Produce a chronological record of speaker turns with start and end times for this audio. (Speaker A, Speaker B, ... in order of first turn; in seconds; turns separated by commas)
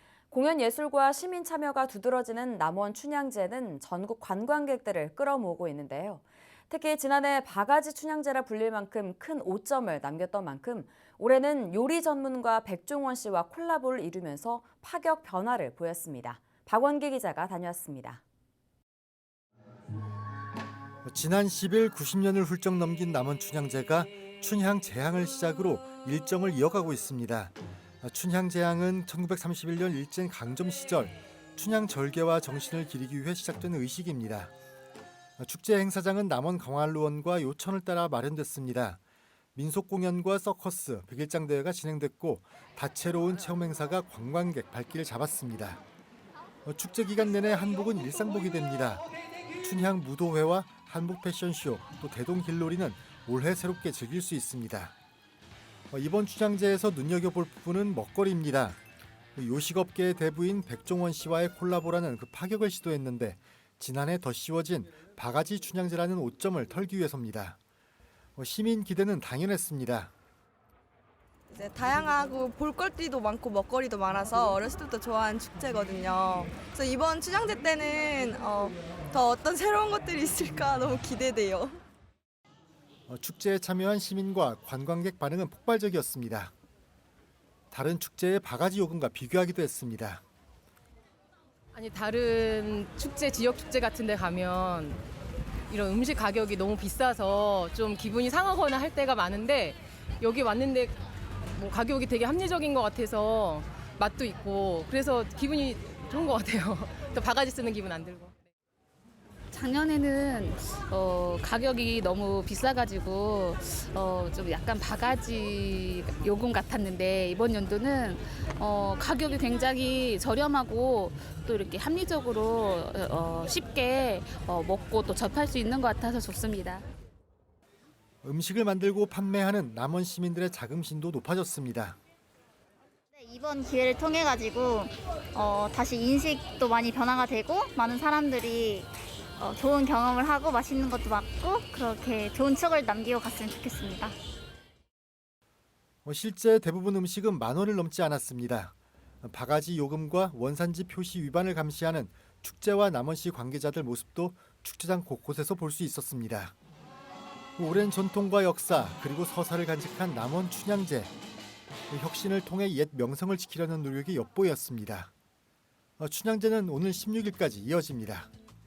Speaker A: 0.3-18.2, Speaker B: 21.0-34.5, Speaker B: 35.4-39.0, Speaker B: 39.5-45.8, Speaker B: 46.7-49.0, Speaker B: 49.6-54.9, Speaker B: 55.9-58.8, Speaker B: 59.4-67.6, Speaker B: 68.4-70.1, Speaker C: 71.5-81.8, Speaker B: 83.1-86.5, Speaker B: 87.7-90.2, Speaker D: 91.7-95.0, Speaker D: 95.7-101.0, Speaker D: 101.5-108.4, Speaker E: 109.5-126.9, Speaker B: 128.2-132.0, Speaker F: 133.2-144.1, Speaker B: 146.0-156.5, Speaker B: 157.6-161.1, Speaker B: 161.9-165.1, Speaker B: 166.0-168.3